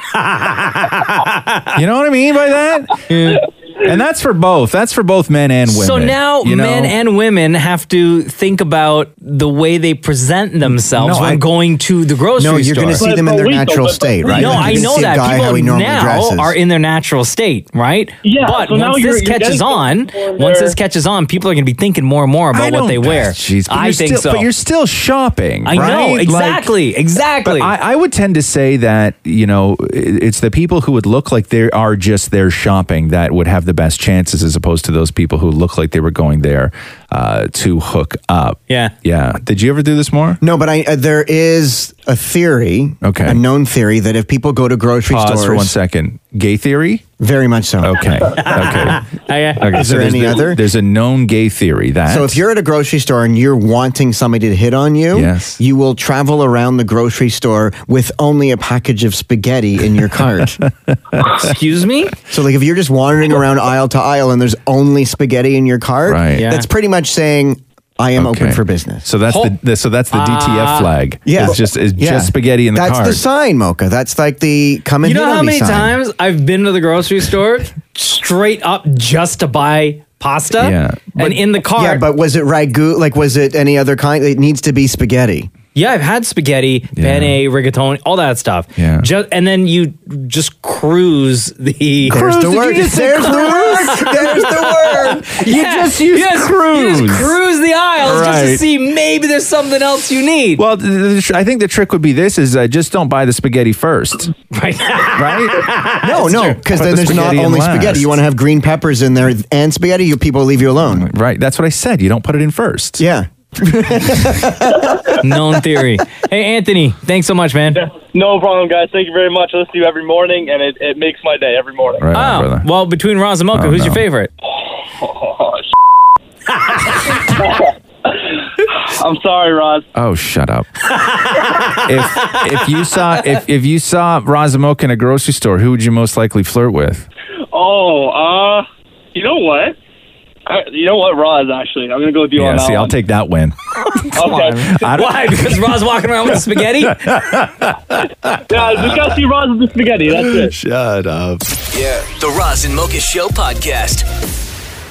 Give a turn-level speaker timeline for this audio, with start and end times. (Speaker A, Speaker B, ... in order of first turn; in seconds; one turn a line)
Speaker A: 0.2-1.7
Speaker B: 1.8-7.0
Speaker A: 3.1-3.4
Speaker A: 5.7-13.1
Speaker B: 10.7-11.4
Speaker C: 12.4-16.6
Speaker D: 13.0-14.5
Speaker B: 14.3-14.8
Speaker A: 14.3-24.5
Speaker D: 18.2-20.8
Speaker B: 22.5-26.7
Speaker A: 25.6-27.7
Speaker B: 27.4-40.4
Speaker A: 38.7-38.9
Speaker C: 40.4-45.7
Speaker B: 43.0-43.4
Speaker B: 45.1-47.0
Speaker C: 47.2-48.1
Speaker B: 47.8-49.0
Speaker A: 48.2-49.8
Speaker B: 49.6-52.4
Speaker C: 49.7-50.6
Speaker C: 52.1-60.5
Speaker B: 55.1-55.6
Speaker B: 60.4-61.3
Speaker A: 61.2-62.1
Speaker C: 62.3-69.0
Speaker B: 66.1-66.4
Speaker A: 66.4-66.7
Speaker B: 68.2-73.2
Speaker A: 69.3-69.5
Speaker A: 70.1-70.9
Speaker C: 71.3-76.0
Speaker A: 75.0-82.0
Speaker B: 80.6-81.4
Speaker C: 81.7-85.5
Speaker A: 85.8-100.6
Speaker B: 87.0-87.4
Speaker B: 88.8-89.1
Speaker B: 92.1-93.5
Speaker C: 92.1-95.3
Speaker B: 95.4-97.4
Speaker B: 98.0-98.6
Speaker B: 100.6-104.3
Speaker A: 104.5-106.6
Speaker B: 105.1-105.7
Speaker C: 106.0-111.1
Speaker B: 106.7-108.2
Speaker B: 110.8-113.0
Speaker C: 113.0-115.0
Speaker A: 115.2-117.8
Speaker D: 117.8-122.0
Speaker B: 122.0-122.7
Speaker A: 122.1-124.3
Speaker B: 123.5-124.0
Speaker D: 125.0-125.6
Speaker D: 127.2-127.7
Speaker D: 128.9-129.8
Speaker B: 129.9-130.7
Speaker A: 130.9-133.3
Speaker B: 131.8-137.1
Speaker D: 137.5-139.8
Speaker D: 140.5-142.9
Speaker B: 142.4-143.6
Speaker B: 144.1-145.6
Speaker D: 144.2-144.7
Speaker A: 144.9-147.0
Speaker B: 146.4-149.2
Speaker D: 148.5-150.5
Speaker B: 150.0-151.4
Speaker E: 151.7-154.1